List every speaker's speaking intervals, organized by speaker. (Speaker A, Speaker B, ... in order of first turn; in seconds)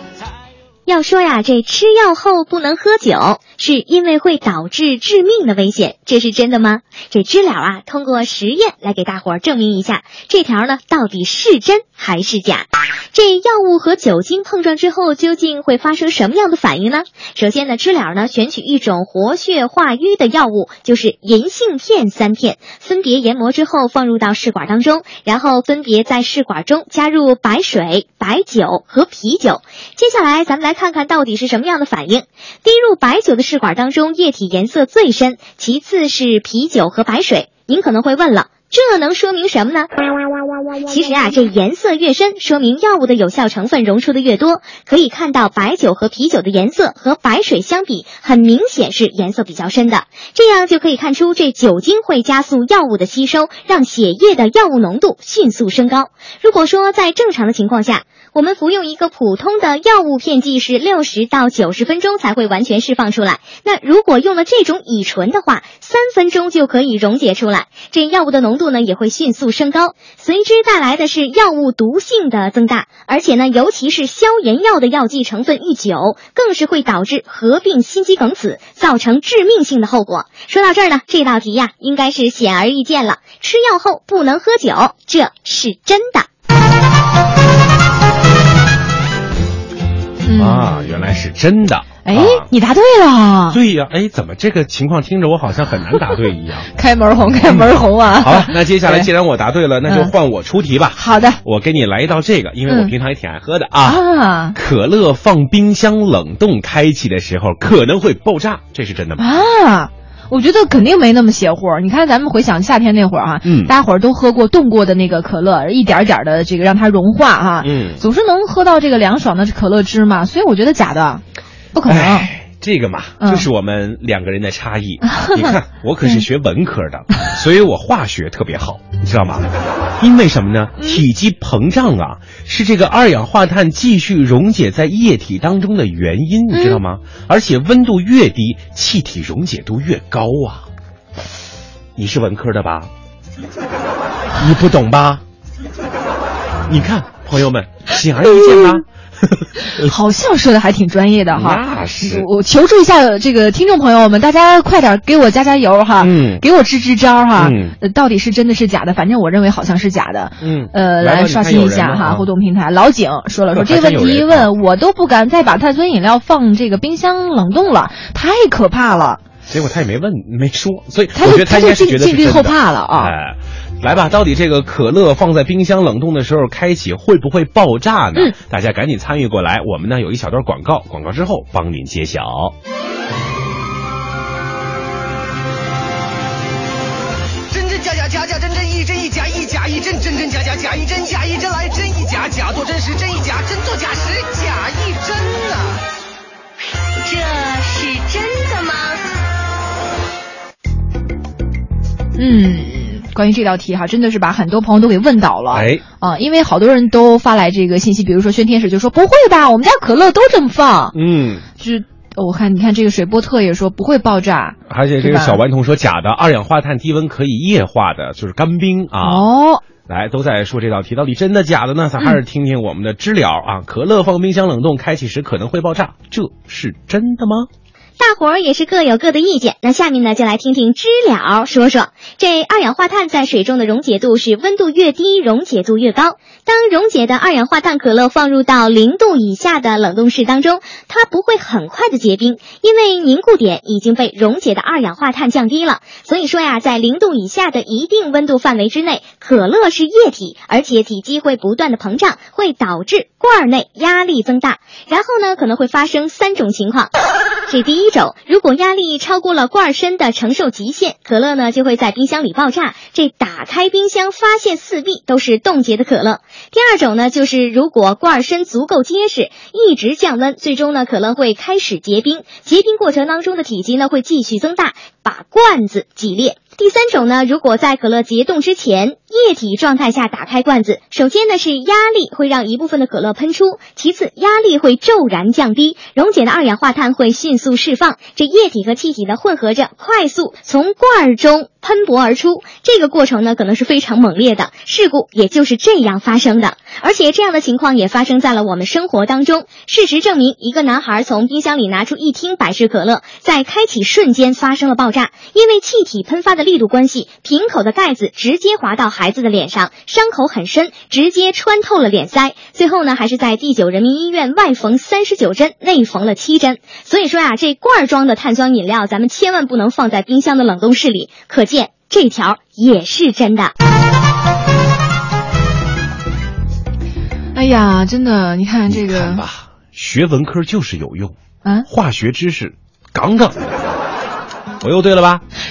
Speaker A: 0.9-39.9, 40.9-86.3, 228.0-256.9, 257.5-323.5
Speaker B: 90.2-91.0, 92.0-93.6, 96.7-99.1, 99.9-100.1, 101.0-101.4, 102.7-102.9, 103.8-104.6, 109.2-121.2, 121.7-122.3, 123.2-123.5, 125.1-126.2, 130.8-131.0, 136.5-136.8, 148.4-148.8, 149.7-169.2, 171.2-173.1, 202.2-210.9, 211.6-215.4, 219.0-219.6, 327.4-329.2
Speaker C: 90.4-92.5, 93.5-96.7, 97.4-104.0, 104.5-109.3, 113.4-113.7, 117.6-118.0, 121.9-129.5, 130.0-140.7, 142.0-142.9, 144.4-145.2, 146.7-149.9, 151.3-152.3, 156.0-156.4, 157.4-157.8, 160.4-162.3, 163.5-164.5, 169.5-182.6, 205.5-205.8, 210.9-211.4, 214.7-219.3, 219.9-227.5, 328.7-331.1, 331.7-333.7, 334.6-335.2
Speaker D: 187.5-195.8
Speaker E: 197.0-199.0